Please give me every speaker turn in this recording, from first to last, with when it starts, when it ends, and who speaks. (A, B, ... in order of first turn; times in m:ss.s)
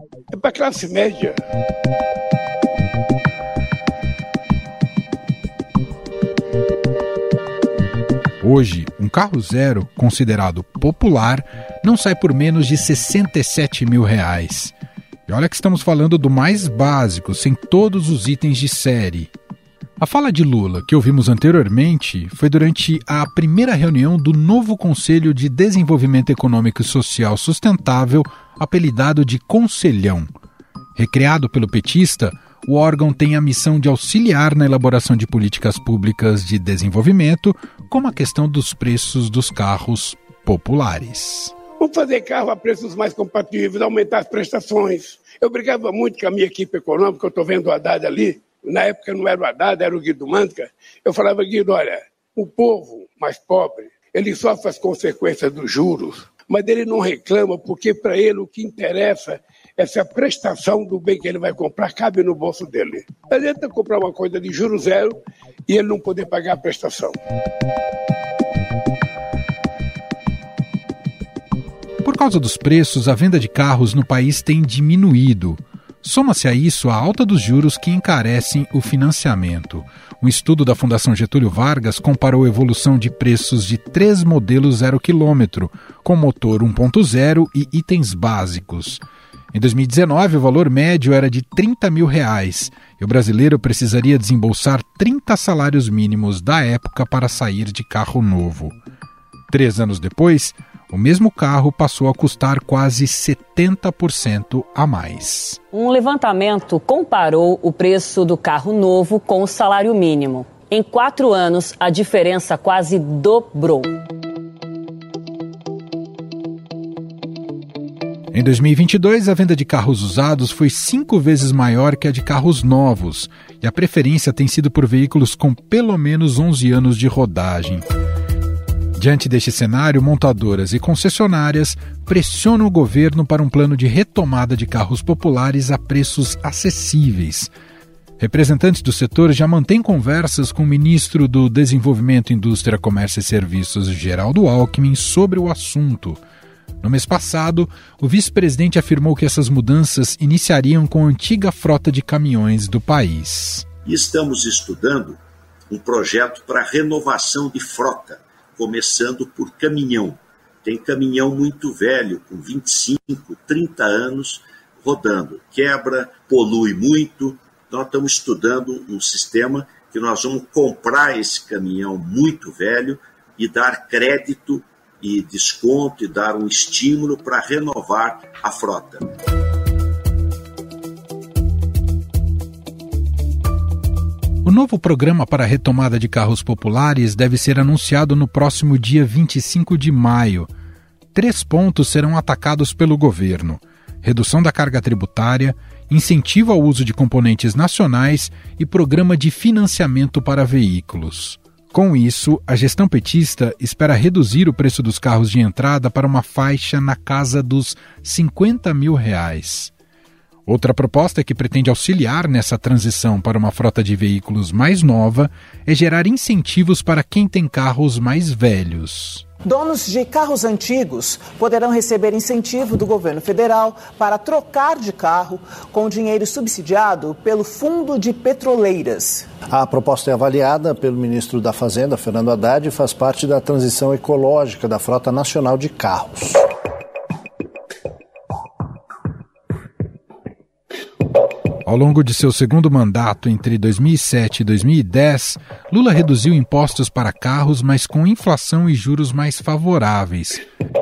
0:00.3-0:01.4 A
0:08.4-0:14.7 B
0:15.3-0:19.3 B
0:20.0-0:30.3 B
0:31.0-0:41.5 B
0:41.8-1:07.2 A
1:12.0-1:38.8 B
1:39.5-1:45.6 B
1:45.7-1:53.9 C
1:58.3-2:07.8 B
2:09.0-2:17.5 B
2:18.2-2:26.2 B
2:26.8-2:33.6 B
2:33.8-2:35.2 D
2:35.7-2:59.0 D
3:04.4-3:10.5 B
3:11.1-3:29.7 B
3:30.5-3:39.2 B
3:39.5-3:49.2 E
3:49.4-3:56.4 F
4:01.6-4:10.4 B